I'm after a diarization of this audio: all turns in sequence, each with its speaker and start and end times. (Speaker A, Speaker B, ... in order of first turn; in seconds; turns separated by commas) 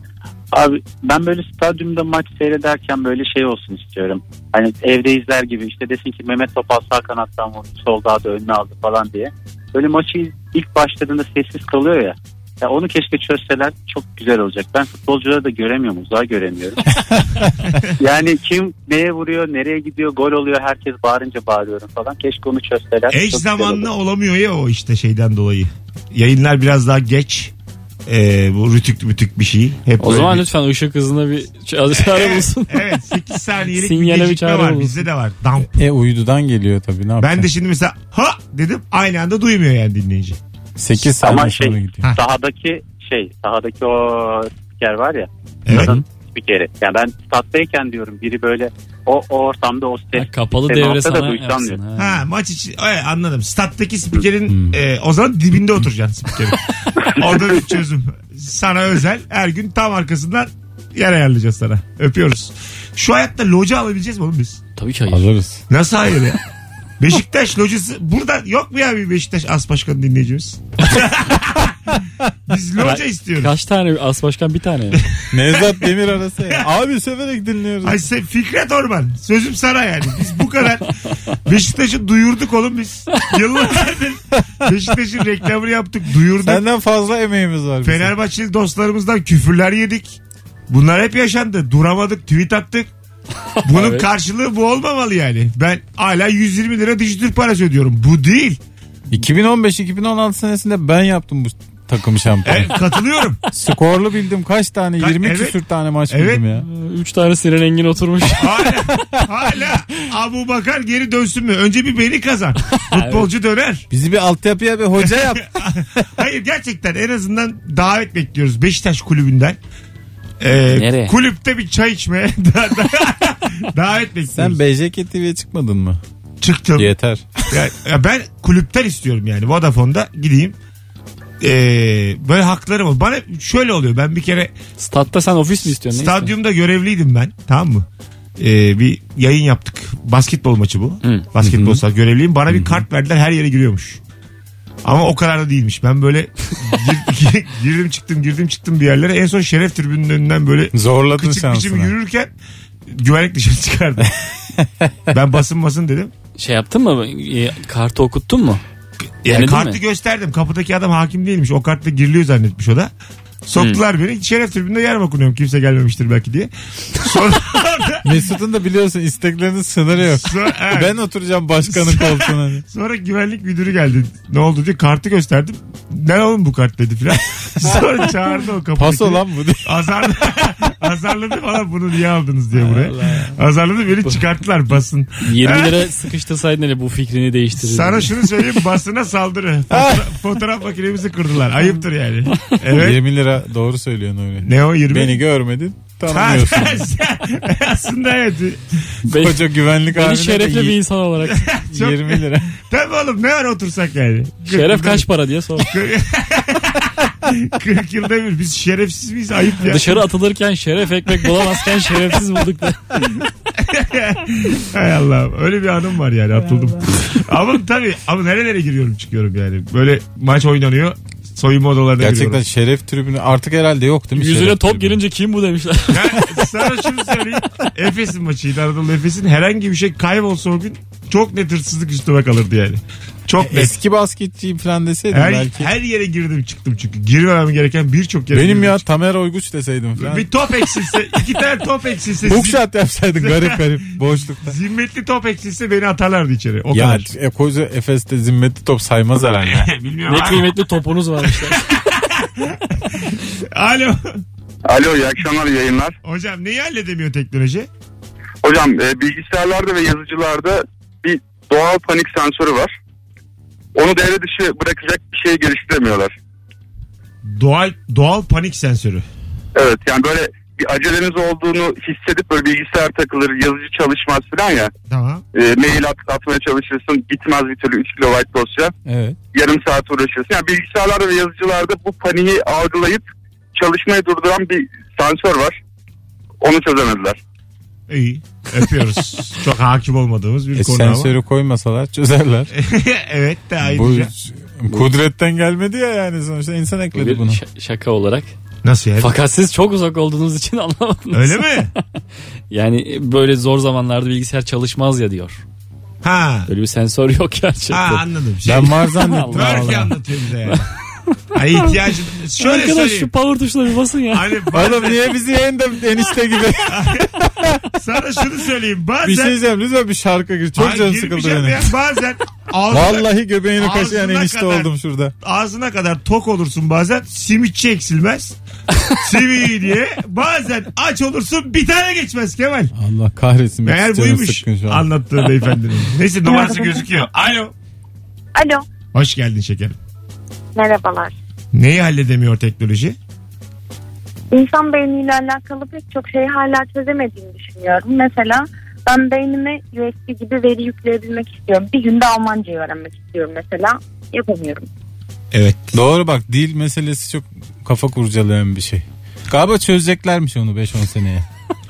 Speaker A: 0.5-16.8, Speaker A: 18.0-23.9, Speaker B: 23.1-27.5, Speaker B: 28.1-30.4, Speaker C: 30.0-32.9, Speaker B: 31.9-35.8, Speaker C: 33.7-35.1, Speaker D: 35.8-37.5, Speaker B: 37.2-40.4, Speaker D: 40.8-42.1, Speaker A: 41.2-51.8, Speaker B: 45.7-46.0, Speaker C: 50.1-52.2, Speaker B: 52.0-64.6, Speaker D: 54.5-54.8, Speaker C: 64.8-65.2, Speaker D: 65.1-65.6, Speaker B: 65.7-66.4, Speaker B: 67.0-71.8, Speaker B: 72.5-73.5, Speaker C: 72.8-75.0, Speaker D: 75.3-78.0, Speaker B: 77.8-80.9, Speaker B: 81.5-86.6, Speaker D: 86.4-88.1, Speaker B: 87.8-90.2, Speaker B: 90.7-92.9, Speaker C: 93.6-94.1, Speaker B: 93.7-98.6, Speaker D: 99.1-102.7, Speaker B: 102.5-103.4, Speaker D: 103.5-106.7, Speaker B: 105.0-105.6, Speaker B: 106.1-106.4, Speaker C: 106.5-108.7, Speaker B: 108.4-113.9, Speaker C: 112.8-113.3, Speaker D: 113.9-115.6, Speaker B: 115.0-119.6, Speaker B: 120.4-124.6, Speaker C: 120.7-121.2, Speaker D: 124.3-126.0, Speaker B: 126.4-126.9, Speaker D: 126.8-127.2, Speaker B: 127.5-130.6, Speaker B: 131.4-134.5, Speaker C: 134.8-136.3, Speaker B: 135.9-137.9, Speaker B: 138.4-144.0, Speaker C: 141.0-141.8, Speaker B: 144.8-152.3, Speaker D: 150.7-151.9, Speaker B: 152.9-154.2, Speaker D: 154.6-154.9, Speaker B: 155.1-156.1, Speaker C: 156.4-158.6, Speaker B: 159.2-162.9, Speaker C: 159.3-159.8, Speaker B: 163.5-168.1, Speaker D: 168.0-172.6, Speaker B: 170.1-170.9, Speaker B: 171.7-185.8, Speaker D: 178.8-179.8, Speaker C: 182.6-183.3, Speaker C: 185.2-188.2, Speaker B: 187.6-193.0, Speaker D: 189.7-190.1, Speaker D: 192.7-196.9, Speaker B: 194.4-195.2, Speaker B: 196.1-198.8, Speaker C: 199.1-201.5, Speaker D: 199.1-200.8, Speaker B: 201.3-209.9, Speaker D: 201.7-202.5, Speaker C: 204.5-205.7, Speaker C: 209.7-213.0, Speaker B: 213.6-222.4, Speaker D: 222.0-225.0, Speaker C: 224.2-226.2, Speaker B: 225.9-233.7, Speaker D: 233.4-235.7, Speaker B: 235.1-238.8, Speaker D: 238.3-240.3, Speaker B: 240.0-242.6, Speaker D: 242.2-244.6, Speaker B: 243.2-243.6, Speaker B: 244.4-247.1, Speaker D: 246.7-249.7, Speaker B: 249.4-250.5, Speaker C: 250.1-251.6, Speaker B: 251.6-254.2, Speaker E: 254.7-255.9, Speaker B: 256.0-257.7, Speaker E: 258.4-262.7, Speaker E: 263.8-266.1, Speaker B: 267.2-269.1, Speaker E: 269.6-274.7, Speaker B: 274.9-275.2, Speaker E: 275.3-278.7, Speaker D: 278.9-279.2, Speaker E: 279.3-285.6, Speaker E: 286.4-287.2, Speaker B: 287.9-291.1, Speaker D: 290.6-292.5, Speaker B: 292.5-294.1, Speaker D: 293.6-297.4, Speaker C: 296.9-298.3, Speaker B: 298.6-299.1, Speaker C: 299.0-301.5, Speaker B: 301.1-301.7, Speaker C: 302.5-305.4, Speaker B: 306.0-306.5, Speaker C: 306.5-308.0, Speaker B: 307.7-308.8, Speaker D: 308.4-309.9, Speaker C: 309.0-309.8, Speaker B: 309.3-310.6, Speaker B: 311.4-313.1, Speaker C: 312.4-314.3, Speaker B: 314.1-315.1, Speaker D: 314.5-317.6, Speaker B: 316.7-317.1, Speaker B: 317.7-319.4, Speaker D: 319.0-321.7, Speaker B: 320.6-328.4, Speaker D: 322.7-325.1, Speaker B: 328.9-332.7, Speaker D: 332.8-334.9, Speaker B: 333.7-337.5, Speaker F: 336.3-336.8, Speaker F: 338.4-338.7, Speaker B: 338.9-339.8, Speaker F: 340.6-341.1, Speaker B: 341.5-343.0, Speaker F: 344.3-354.7, Speaker B: 355.3-355.8, Speaker D: 355.7-361.3